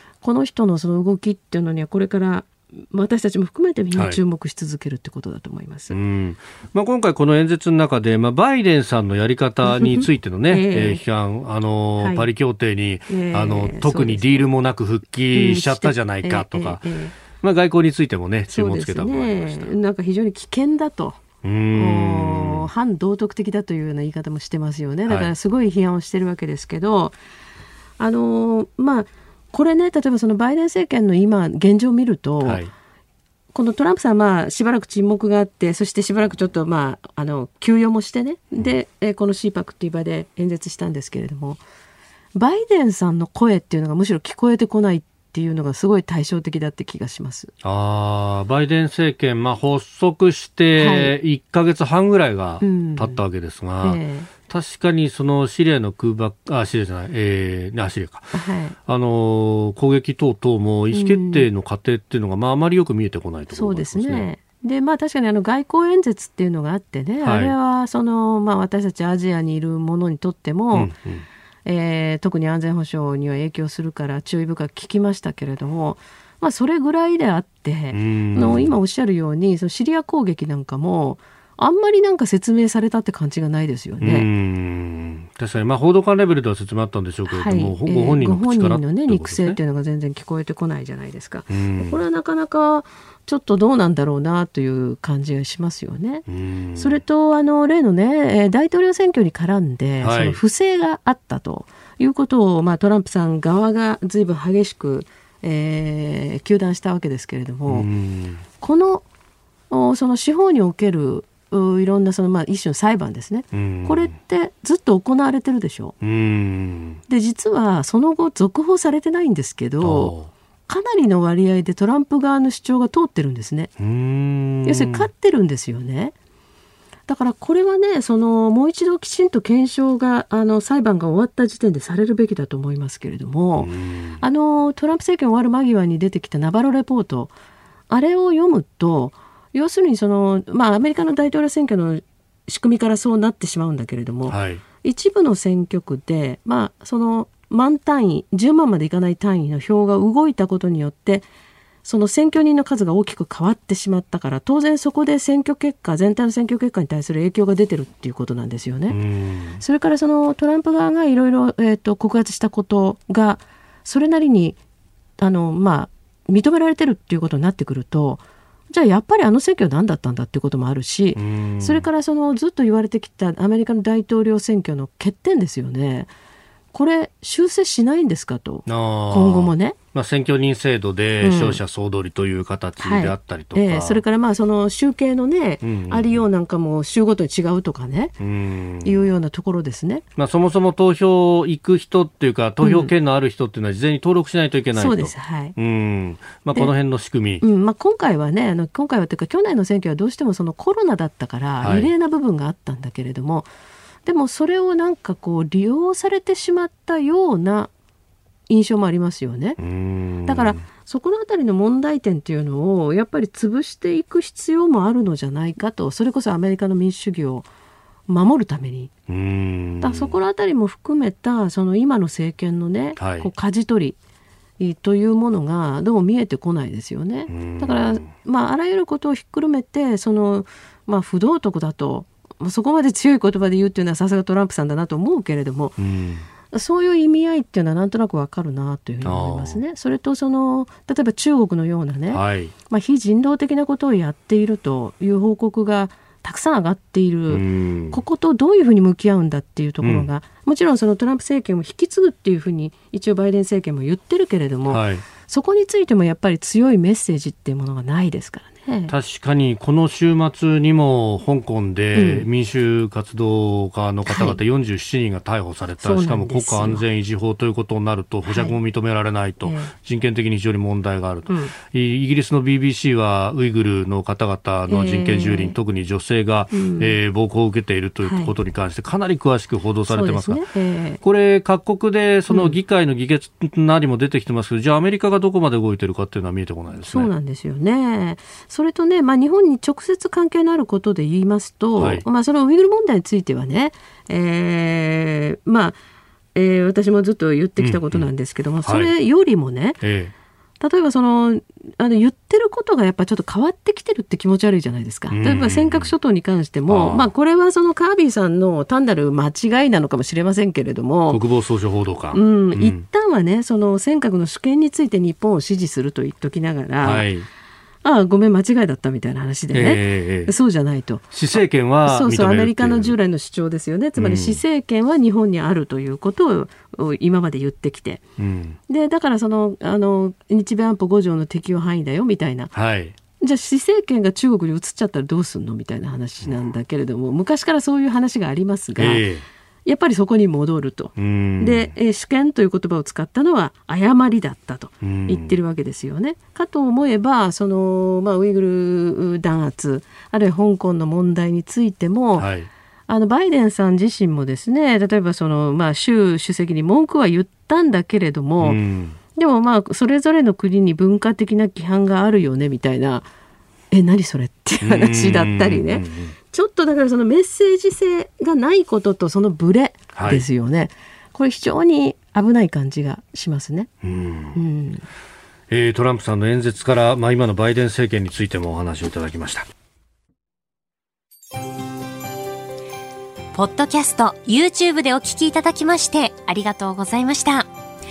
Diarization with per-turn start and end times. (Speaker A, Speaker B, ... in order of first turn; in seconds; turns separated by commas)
Speaker A: 0.2-6.0, Speaker B: 3.9-4.2, Speaker B: 5.9-19.7, Speaker A: 9.6-11.0, Speaker A: 12.0-12.3, Speaker A: 13.1-14.4, Speaker A: 15.3-17.1, Speaker A: 18.5-21.2, Speaker B: 21.4-22.7, Speaker A: 21.7-27.2, Speaker B: 25.1-25.3, Speaker A: 28.0-32.6, Speaker B: 32.4-32.7, Speaker A: 33.5-41.6, Speaker A: 42.3-47.5, Speaker B: 47.6-58.3, Speaker A: 50.8-51.1, Speaker A: 52.6-53.2, Speaker A: 53.8-54.3, Speaker A: 58.3-58.8, Speaker B: 58.9-64.3, Speaker A: 60.9-61.5, Speaker A: 63.5-70.9, Speaker B: 67.2-67.5, Speaker B: 70.7-71.2, Speaker A: 71.6-84.3, Speaker B: 77.9-78.7, Speaker B: 84.0-89.6, Speaker A: 87.3-96.2, Speaker B: 91.5-92.0, Speaker B: 96.3-97.0, Speaker A: 96.8-107.9, Speaker B: 100.0-100.4, Speaker B: 107.7-108.4, Speaker A: 108.6-109.0, Speaker A: 109.7-115.9, Speaker B: 113.5-114.1, Speaker B: 116.0-117.0, Speaker A: 117.1-120.1, Speaker B: 119.8-120.3, Speaker A: 120.7-123.7, Speaker B: 123.8-125.1, Speaker A: 124.6-126.1, Speaker A: 127.1-137.3, Speaker B: 133.6-134.2, Speaker A: 137.9-151.3, Speaker B: 144.3-144.6, Speaker A: 151.8-159.0, Speaker B: 158.9-159.6, Speaker A: 159.6-164.6, Speaker A: 165.2-176.1, Speaker B: 171.1-171.9, Speaker A: 176.7-179.8, Speaker B: 178.7-184.0, Speaker A: 181.2-181.6, Speaker A: 182.8-188.1, Speaker B: 185.6-186.2, Speaker B: 188.2-189.1, Speaker A: 188.8-190.0, Speaker B: 190.2-197.4, Speaker A: 192.6-192.9, Speaker A: 194.7-195.6, Speaker A: 197.4-203.5, Speaker B: 201.6-201.9, Speaker A: 204.0-207.7, Speaker A: 208.5-209.6, Speaker B: 209.6-210.6, Speaker A: 210.2-217.5, Speaker A: 218.1-218.9, Speaker B: 219.1-220.2, Speaker A: 219.8-224.0, Speaker B: 223.0-223.3, Speaker A: 224.6-235.8, Speaker B: 227.3-228.1, Speaker B: 235.8-236.3, Speaker A: 236.5-258.9, Speaker B: 239.0-239.6, Speaker B: 242.1-242.5, Speaker B: 247.3-248.0, Speaker B: 249.8-250.1, Speaker B: 254.7-255.0, Speaker B: 258.9-280.4, Speaker A: 261.9-262.3, Speaker A: 264.1-264.4, Speaker A: 265.8-266.8, Speaker A: 268.3-268.6, Speaker A: 269.4-269.7, Speaker A: 271.3-271.5, Speaker A: 274.7-275.6, Speaker A: 276.5-277.0, Speaker A: 278.0-278.3, Speaker A: 279.9-281.0, Speaker B: 281.0-287.1, Speaker A: 282.3-282.5, Speaker A: 286.8-295.8, Speaker B: 291.8-292.0, Speaker A: 296.3-299.8, Speaker B: 297.6-298.1, Speaker B: 298.6-298.9, Speaker B: 299.8-300.1, Speaker A: 300.6-311.2, Speaker B: 305.1-305.9, Speaker B: 306.7-307.1, Speaker B: 311.1-312.8, Speaker A: 312.1-317.1, Speaker B: 316.8-317.3, Speaker A: 317.8-321.1, Speaker B: 319.5-320.3, Speaker B: 321.1-322.9, Speaker A: 321.8-328.0, Speaker B: 324.0-324.4, Speaker B: 328.2-328.6, Speaker A: 328.7-332.5, Speaker B: 332.5-332.9, Speaker A: 333.2-339.0, Speaker B: 338.8-339.2, Speaker A: 339.6-352.3, Speaker B: 341.0-341.7, Speaker B: 344.8-345.4, Speaker B: 352.2-352.5, Speaker A: 352.9-358.6, Speaker B: 358.4-359.0, Speaker A: 359.1-363.1, Speaker A: 363.7-373.7, Speaker B: 364.6-366.1, Speaker B: 369.9-370.2, Speaker B: 373.8-374.4, Speaker A: 374.3-374.8, Speaker B: 375.5-379.5, Speaker C: 383.3-387.5